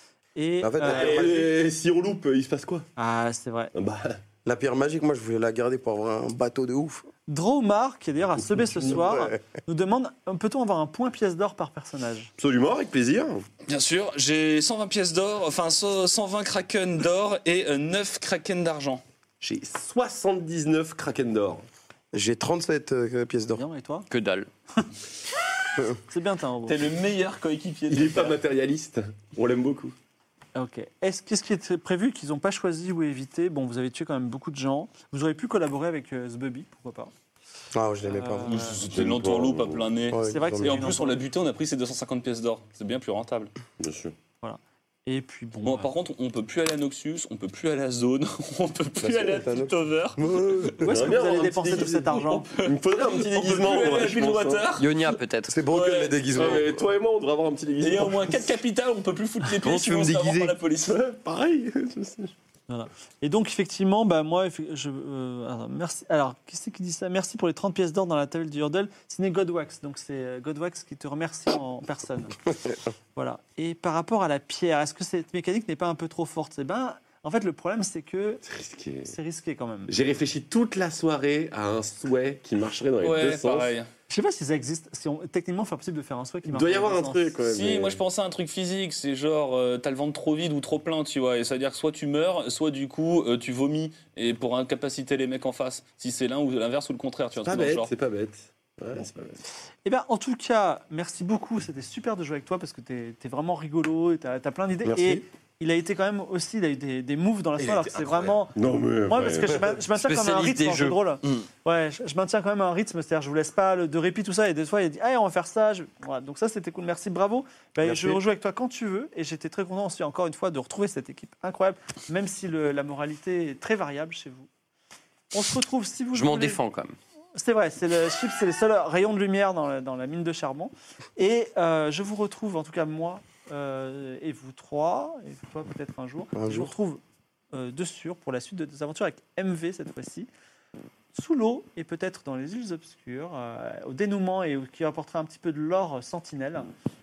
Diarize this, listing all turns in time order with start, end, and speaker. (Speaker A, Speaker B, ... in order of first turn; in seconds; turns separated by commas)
Speaker A: 0.4-1.3, Speaker B: 0.6-1.6, Speaker C: 0.8-2.9, Speaker A: 3.0-3.7, Speaker C: 3.7-4.2, Speaker B: 4.4-7.1, Speaker A: 7.3-12.3, Speaker C: 8.5-9.1, Speaker B: 8.9-9.4, Speaker C: 12.4-13.4, Speaker D: 13.7-19.0, Speaker C: 19.4-21.6, Speaker B: 22.1-23.6, Speaker A: 23.6-24.1, Speaker E: 24.1-24.5, Speaker A: 26.1-26.8, Speaker D: 26.6-28.4, Speaker C: 27.9-29.9, Speaker A: 30.6-37.1, Speaker B: 37.7-38.7, Speaker A: 38.1-38.8, Speaker D: 38.5-43.5, Speaker C: 38.5-39.9, Speaker B: 40.1-40.9, Speaker A: 40.2-41.2, Speaker C: 43.8-44.1, Speaker A: 44.4-45.9, Speaker D: 45.6-50.8, Speaker B: 49.0-51.0, Speaker A: 50.8-52.5, Speaker C: 50.9-54.7, Speaker D: 52.5-55.1, Speaker E: 54.8-55.6, Speaker B: 55.5-56.9, Speaker D: 55.7-56.6, Speaker C: 56.3-58.5, Speaker D: 57.8-61.0, Speaker E: 59.6-60.5, Speaker C: 60.9-62.3, Speaker A: 62.7-72.4, Speaker A: 73.1-78.4, Speaker C: 78.4-79.1, Speaker A: 79.0-79.9, Speaker C: 79.9-83.7, Speaker D: 83.0-83.9, Speaker A: 84.1-87.3, Speaker C: 86.5-88.0, Speaker D: 87.4-97.9, Speaker C: 97.4-99.4, Speaker A: 99.8-124.5, Speaker B: 104.9-105.2, Speaker C: 107.6-109.8, Speaker E: 109.9-111.4, Speaker C: 117.8-118.2, Speaker A: 125.3-126.6, Speaker E: 126.1-127.0, Speaker A: 127.3-137.0, Speaker B: 136.3-136.7, Speaker A: 137.5-140.3, Speaker A: 141.1-146.7